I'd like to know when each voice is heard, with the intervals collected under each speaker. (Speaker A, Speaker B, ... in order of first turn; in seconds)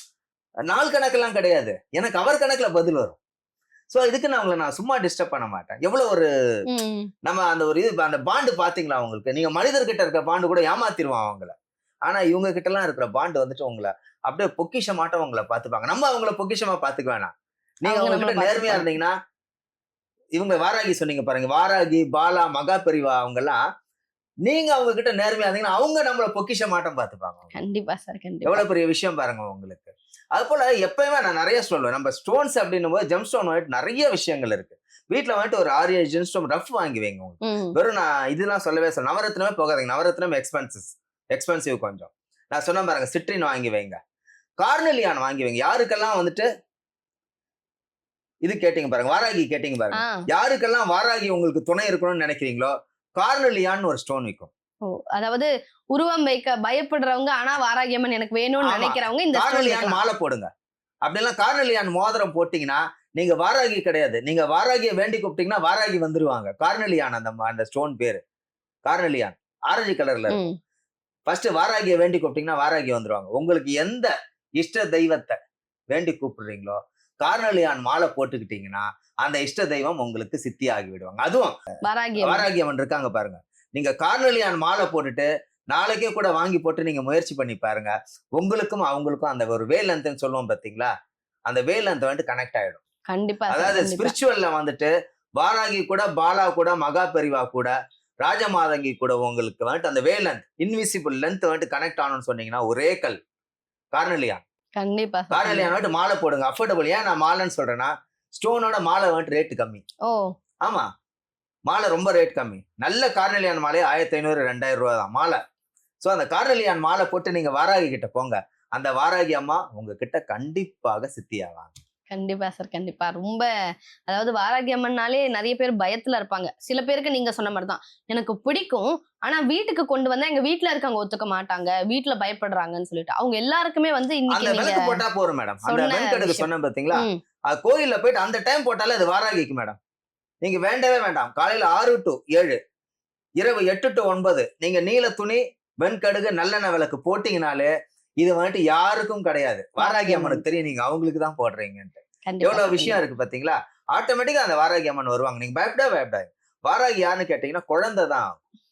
Speaker A: 0.7-3.2, 3.9-6.3, 7.2-11.5, 12.1-17.3, 17.8-19.1, 20.3-23.6, 24.4-27.5, 28.4-44.0, 44.6-46.5, 48.4-54.5, 58.6-60.5, 61.0-68.2, 68.8-70.4, 71.3-75.3, 75.9-81.6, 82.2-90.9, 91.5-92.8, 93.5-103.2, 103.9-104.4, 105.3-109.8, 111.7-115.4, 116.0-121.7, 134.3-139.8, 140.4-142.6, 143.4-158.4
Speaker B: 6.7-7.1, 17.8-18.9, 27.5-28.6, 37.4-37.7, 49.9-50.2, 54.9-60.0, 70.3-70.5, 81.8-82.5, 93.1-94.1, 104.8-105.7, 122.1-123.5, 124.1-135.0, 135.7-137.2, 149.8-150.4, 152.2-153.0